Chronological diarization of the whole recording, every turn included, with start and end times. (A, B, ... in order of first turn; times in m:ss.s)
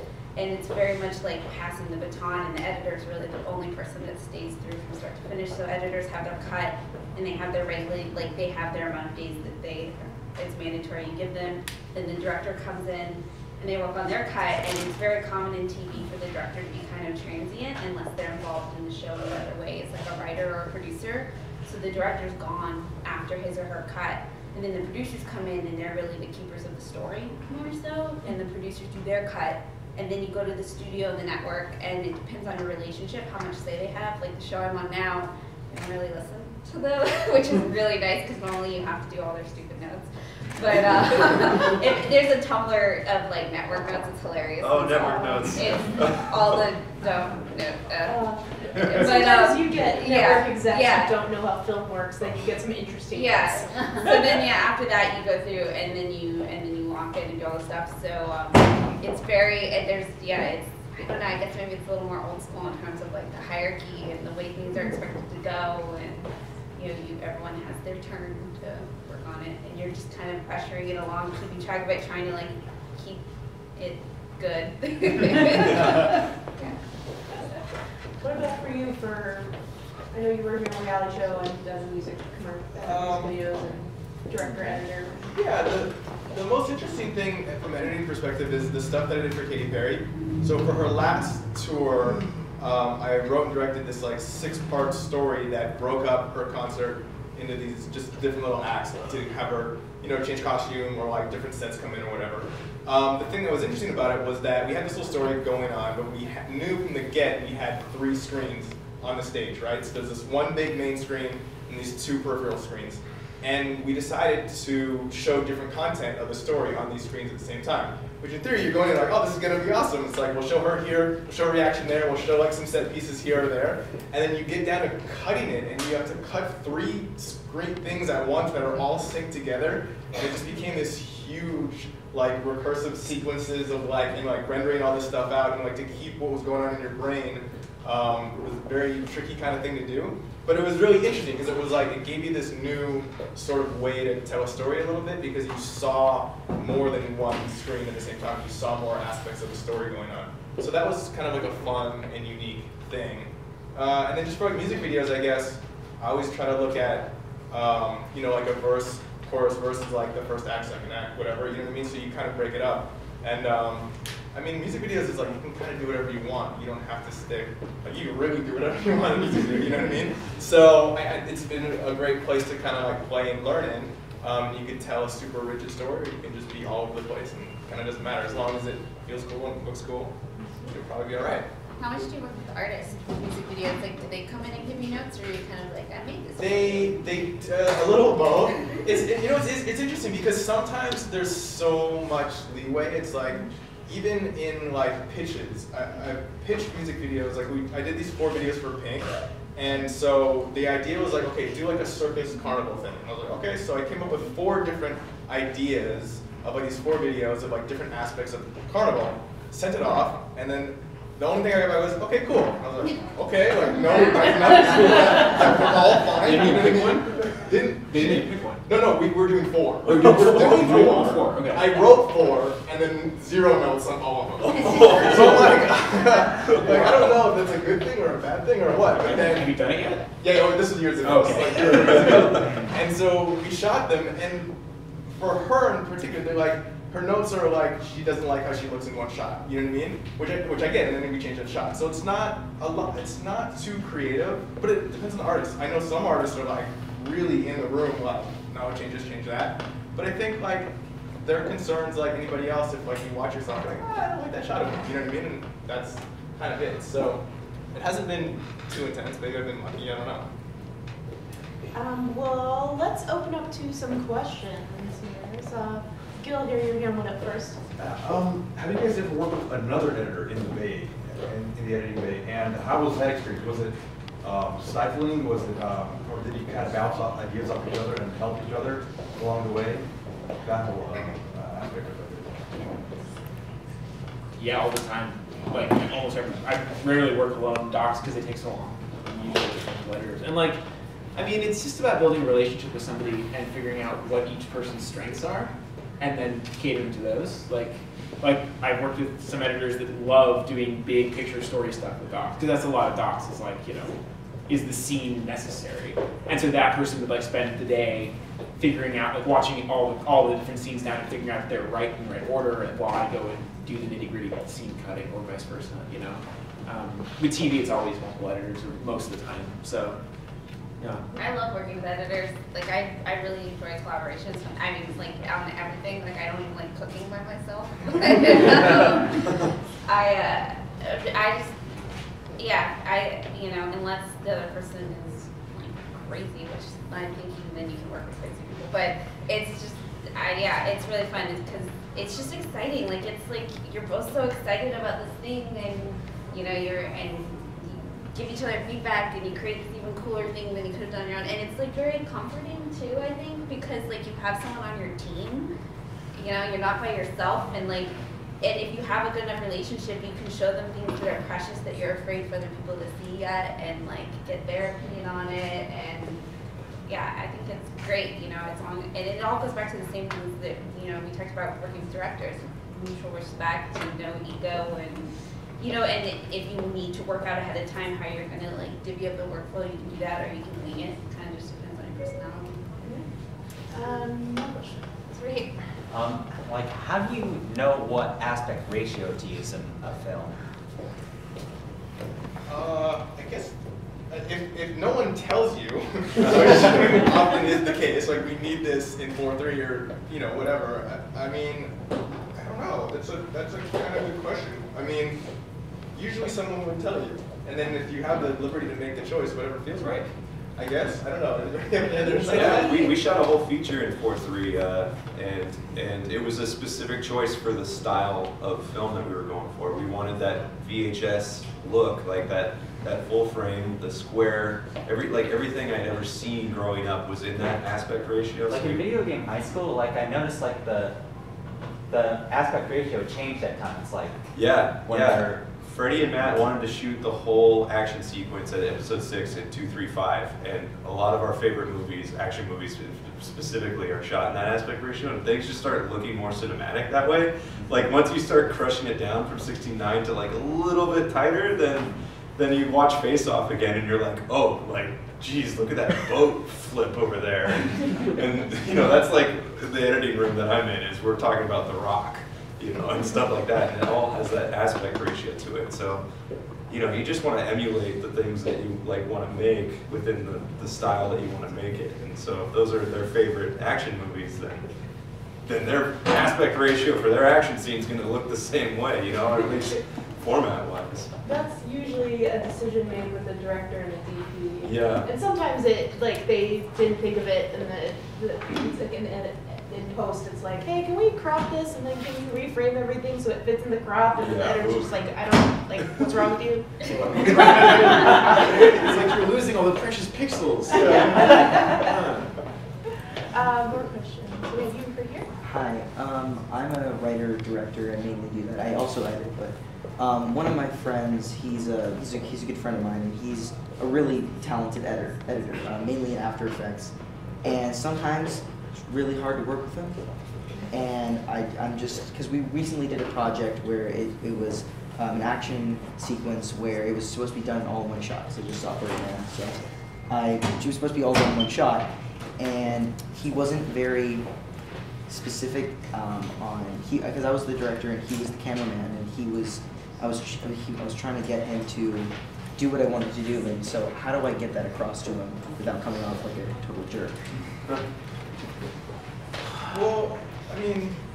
0:00.4-0:51.1 A
0:44.6-0:46.5 B
0:45.1-0:45.4 C
0:48.1-0:54.4 C
0:53.1-1:13.2 A
1:13.8-1:16.8 A
1:18.2-1:19.6 C
1:20.1-1:25.3 C
1:22.8-1:23.4 D
1:25.4-3:00.1 D
3:00.7-3:01.5 D
3:01.8-3:07.0 A
3:06.4-3:49.6 D
3:36.2-3:37.2 E
3:37.8-3:38.7 E
3:39.9-3:41.8 E
3:40.0-3:40.3 B
3:44.5-3:45.6 B
3:49.0-3:50.1 E
3:50.2-3:54.6 D
3:51.0-3:52.8 E
3:55.2-4:20.3 D
4:21.7-4:27.6 C
4:27.8-4:39.8 F
4:40.4-4:42.8 F
4:44.4-4:50.6 E
4:51.2-5:04.0 E
5:04.5-5:20.0 E
5:21.2-5:31.6 A
5:32.4-5:55.5 A
5:56.2-6:06.2 A
6:06.9-6:22.6 A
6:22.8-6:23.1 C
6:23.7-6:24.9 C
6:25.1-6:25.5 A
6:25.9-6:30.4 G
6:32.5-6:33.5 D
6:34.1-6:41.8 D
6:42.3-6:45.2 D
6:45.9-6:52.8 D
6:52.0-6:53.0 C
6:52.2-7:08.9 B
7:08.5-7:11.0 G
7:11.9-7:14.2 G
7:14.3-7:46.0 B
7:14.8-7:15.4 G
7:46.7-7:54.7 B
7:55.5-8:01.1 B
8:01.2-8:17.7 C
8:04.6-8:05.1 B
8:14.2-8:14.9 B
8:16.9-8:22.3 E
8:20.7-8:21.9 C
8:20.9-8:21.1 B
8:23.3-8:25.3 C
8:25.4-8:40.0 H
8:40.7-8:54.3 H
8:55.1-9:07.2 H
9:09.7-9:11.0 D